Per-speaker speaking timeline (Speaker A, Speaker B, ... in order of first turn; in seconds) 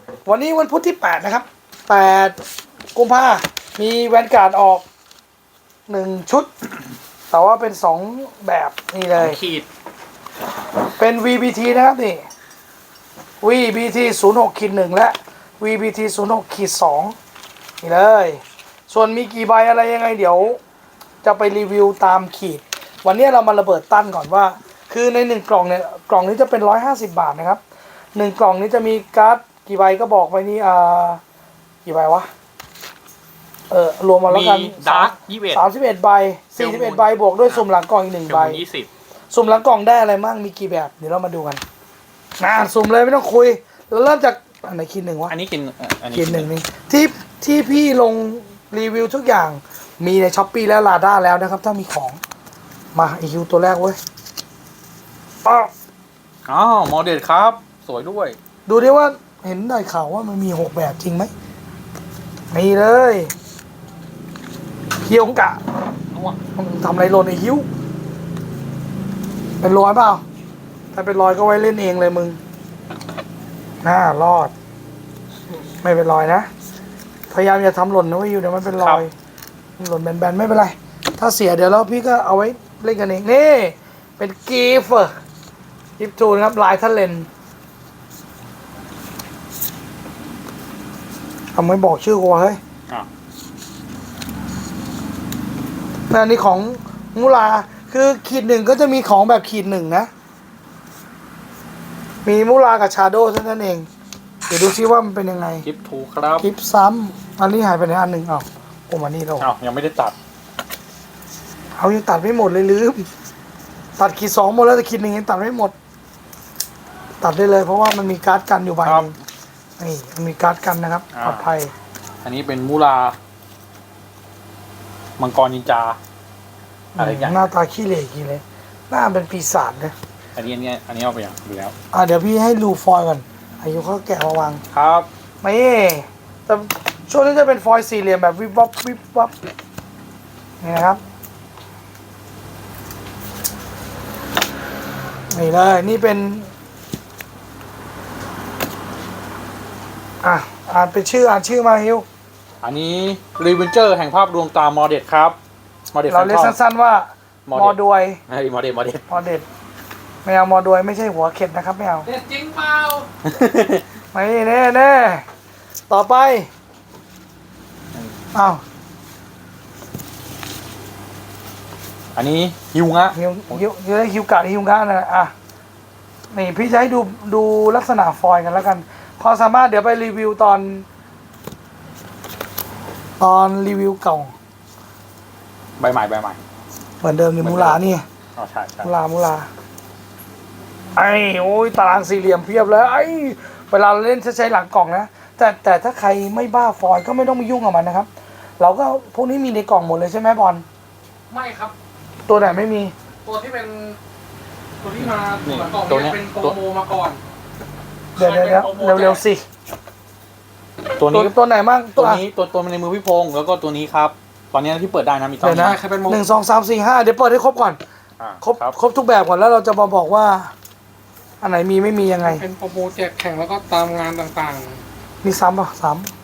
Speaker A: 0.2-2.4, 2.9-4.8, 5.9-6.5, 7.3-9.4, 11.0-12.2, 13.4-17.1, 17.8-20.6, 21.2-27.6, 28.1-31.2, 31.8-32.3, 33.7-38.6, 39.3-41.6, 42.4-45.3, 46.1-52.2, 52.9-54.0, 55.4-55.7, 58.7-61.3, 62.5-63.3, 65.0-65.6, 66.5-67.7, 69.6-70.2, 70.9-72.4, 73.8-74.5, 75.8-76.5, 77.3-79.1, 79.8-85.1, 86.0-87.3, 91.5-92.6, 96.1-100.1, 102.2-103.9, 104.5-105.7, 106.4-109.5, 111.8-113.1, 114.0-115.7, 117.2-119.1, 119.8-121.7, 126.9-129.9, 131.9-134.6, 135.4-139.3, 140.6-141.0, 145.3-146.5, 150.2-152.1, 156.1-158.2, 159.1-159.4, 160.2-162.1, 164.1-165.2, 165.9-166.5, 168.3-168.6, 173.1-175.3, 176.3-180.9, 183.2-184.3, 187.0-188.0, 188.8-189.5, 190.9-200.6, 202.3-202.9, 208.2-209.4, 211.1-212.2, 215.4-217.8, 218.4-220.5, 221.4-222.4, 225.2-226.1
Speaker B: 9.2-9.7, 34.3-35.6, 36.6-37.6, 38.2-38.9, 45.3-46.5, 56.5-58.4, 66.1-66.4, 105.6-106.5, 109.4-110.1, 118.8-119.2, 121.1-121.5, 122.2-123.2, 125.2-126.0, 127.0-127.5, 130.3-131.7, 134.7-135.1, 152.6-155.3, 155.9-156.6, 157.4-157.8, 158.3-159.1, 163.2-163.8, 172.1-173.6, 185.8-186.4, 187.4-187.8, 188.4-188.9, 205.0-206.6, 211.0-211.3, 211.9-215.8, 218.2-218.7
Speaker C: 162.1-163.1, 201.3-201.7, 203.2-204.0, 204.8-207.2, 208.2-209.2, 215.5-216.2, 222.2-224.8